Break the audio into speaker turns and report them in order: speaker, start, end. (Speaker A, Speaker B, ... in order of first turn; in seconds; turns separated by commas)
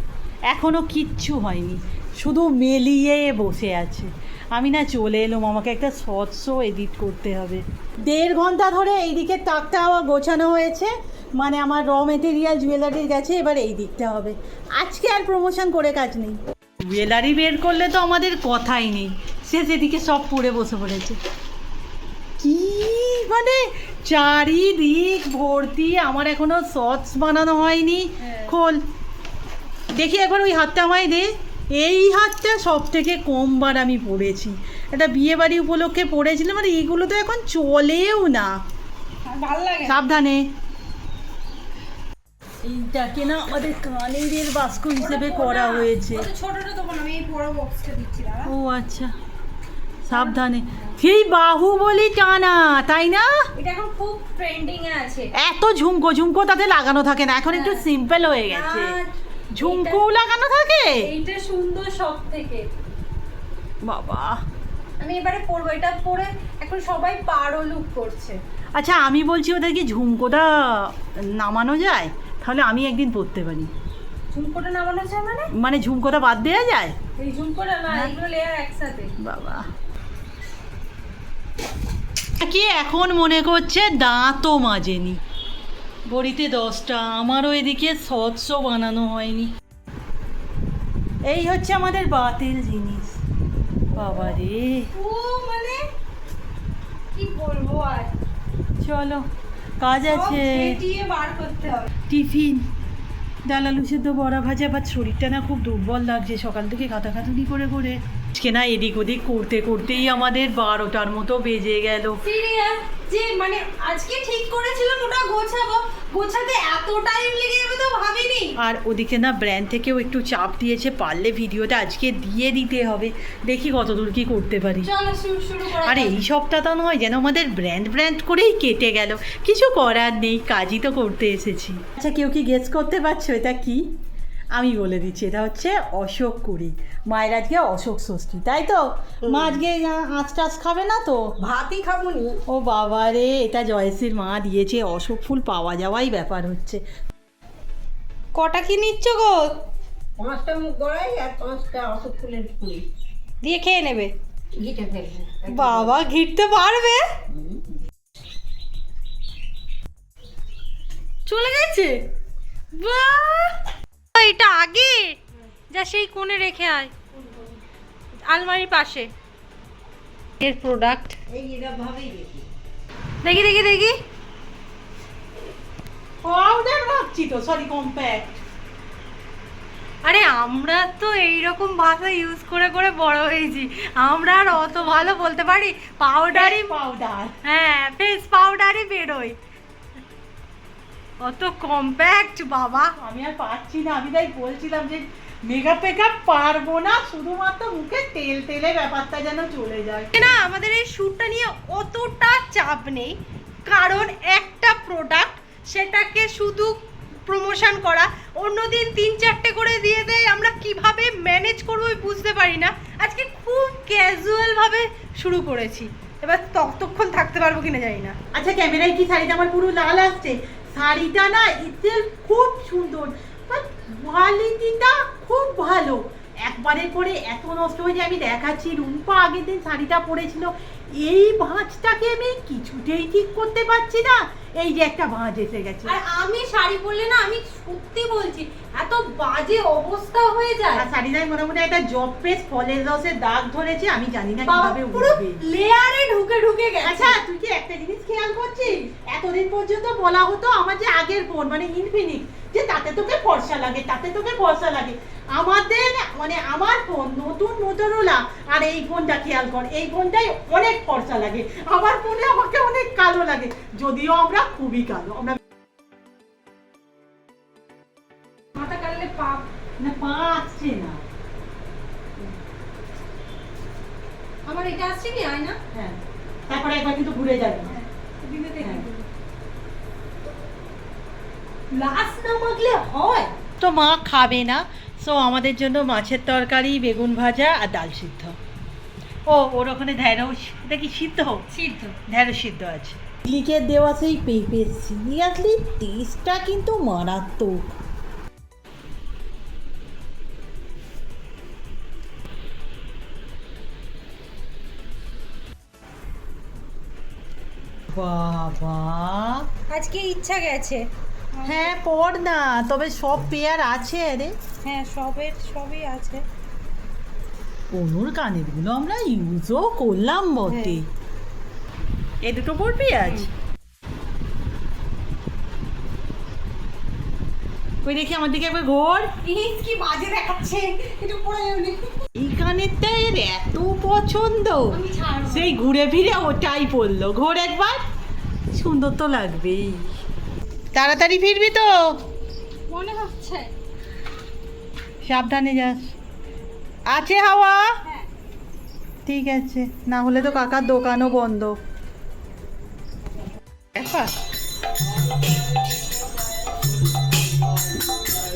Speaker A: 0.5-21.2, Speaker A: 22.4-28.8, Speaker B: 28.2-28.5, Speaker A: 29.9-38.5, Speaker B: 39.2-40.0, Speaker A: 39.8-40.5, Speaker A: 42.6-46.3, Speaker B: 45.0-48.5, Speaker A: 48.4-49.1, Speaker A: 50.0-53.3, Speaker B: 50.1-50.4, Speaker B: 53.5-55.3, Speaker A: 55.4-59.0, Speaker B: 57.5-57.8, Speaker B: 58.5-60.0, Speaker A: 59.5-61.1, Speaker B: 61.0-62.6, Speaker A: 63.8-64.4, Speaker B: 65.0-68.4, Speaker A: 68.8-73.7, Speaker B: 74.3-75.5, Speaker A: 75.5-77.0, Speaker B: 77.2-79.1, Speaker A: 77.9-78.2, Speaker A: 79.2-79.7, Speaker A: 82.4-85.2, Speaker A: 86.1-89.5, Speaker A: 91.2-93.2, Speaker A: 93.9-94.9, Speaker B: 94.9-95.8, Speaker B: 97.1-98.1, Speaker A: 98.8-99.2, Speaker A: 99.8-100.8, Speaker B: 100.0-101.9, Speaker A: 102.1-102.7, Speaker A: 103.5-112.2, Speaker B: 112.2-118.5, Speaker A: 118.6-124.9, Speaker B: 124.8-126.2, Speaker A: 125.8-133.9, Speaker A: 134.5-141.2, Speaker B: 141.4-142.3, Speaker C: 141.6-142.3, Speaker A: 142.5-146.8, Speaker B: 148.3-149.7, Speaker C: 150.2-152.8, Speaker B: 153.4-154.1, Speaker C: 154.6-156.0, Speaker B: 155.4-157.0, Speaker B: 161.2-162.0, Speaker B: 162.7-163.6, Speaker B: 164.1-165.2, Speaker B: 165.7-167.6, Speaker B: 168.3-169.1, Speaker B: 170.4-171.6, Speaker C: 171.3-172.4, Speaker B: 173.2-174.0, Speaker A: 176.2-178.3, Speaker B: 180.0-186.8, Speaker A: 186.3-187.3, Speaker B: 187.4-189.4, Speaker B: 191.2-192.9, Speaker A: 193.0-200.4, Speaker B: 200.1-218.2, Speaker A: 218.3-235.9, Speaker B: 235.8-240.9, Speaker A: 240.8-245.4, Speaker B: 244.4-247.2, Speaker A: 246.8-265.4, Speaker B: 268.6-269.5, Speaker A: 269.8-271.0, Speaker B: 274.4-275.6, Speaker A: 275.7-277.7, Speaker B: 277.6-279.1, Speaker A: 278.6-278.9, Speaker B: 281.7-283.3, Speaker A: 283.6-288.4, Speaker A: 289.2-291.4, Speaker B: 291.5-292.0, Speaker A: 292.1-297.7, Speaker A: 307.9-309.5, Speaker B: 309.7-310.8, Speaker B: 311.3-311.7, Speaker A: 311.4-314.4, Speaker B: 314.6-316.2, Speaker A: 317.7-320.9, Speaker B: 320.5-320.8, Speaker A: 322.2-323.3, Speaker B: 323.0-323.3, Speaker A: 327.8-329.1, Speaker B: 329.2-331.9, Speaker A: 332.1-337.8, Speaker B: 334.7-335.6, Speaker A: 338.5-339.9, Speaker A: 340.7-342.0, Speaker B: 342.7-343.5, Speaker A: 345.0-345.9, Speaker A: 346.9-347.7, Speaker A: 349.1-351.6, Speaker A: 353.7-354.1